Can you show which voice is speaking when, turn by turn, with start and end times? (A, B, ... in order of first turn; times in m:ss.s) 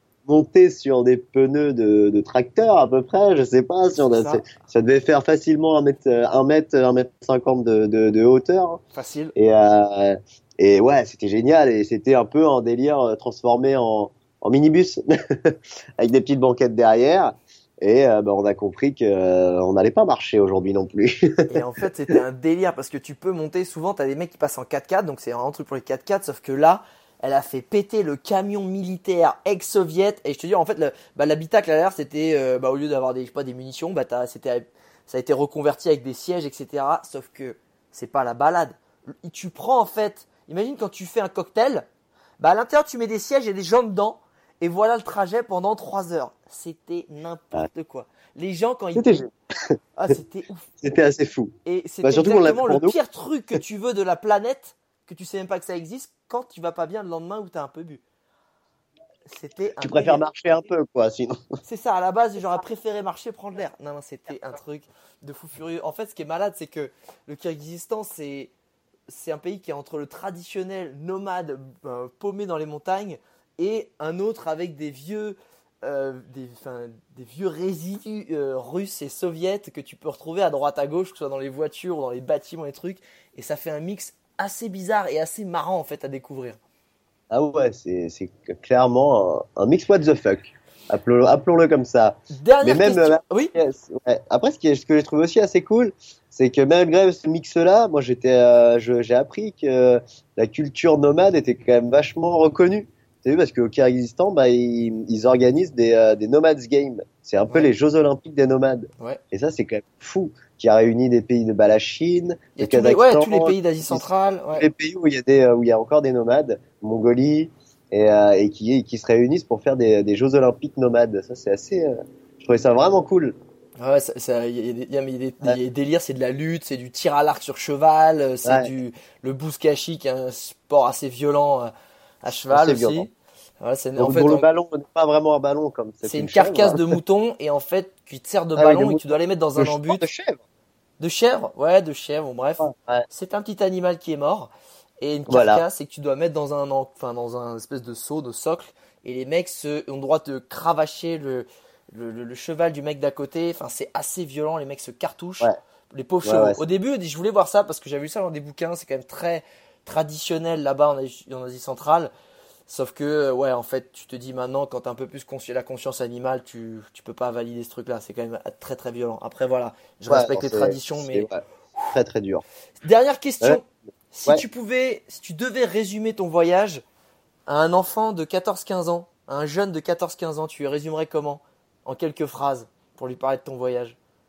0:00.3-0:08.8 A
0:04.0-0:04.4 B
0:08.9-0:09.3 B
0:09.4-0:21.5 A
0:21.5-0:41.9 B
0:42.4-0:49.1 B
0:49.0-0:49.8 A
0:50.0-0:50.7 B
0:50.8-0:53.0 A
0:51.6-0:58.0 B
0:59.3-1:00.3 B
0:59.8-1:01.4 A
1:01.6-1:08.5 B
1:09.1-1:26.6 B
1:27.3-1:54.0 A
1:32.3-1:33.5 B
1:52.6-1:54.7 B
1:54.6-2:03.3 A
2:03.8-2:11.7 B
2:08.4-2:08.7 A
2:12.2-2:14.5 B
2:12.5-2:13.1 A
2:14.0-2:16.9 A
2:16.0-2:20.1 B
2:18.6-2:20.4 A
2:21.0-2:42.1 B
2:22.6-2:23.0 A
2:25.3-2:25.6 A
2:36.2-2:36.6 A
2:42.7-2:51.3 B
2:50.1-2:51.4 A
2:51.9-2:52.4 A
2:52.8-2:56.8 B
2:57.5-3:04.0 B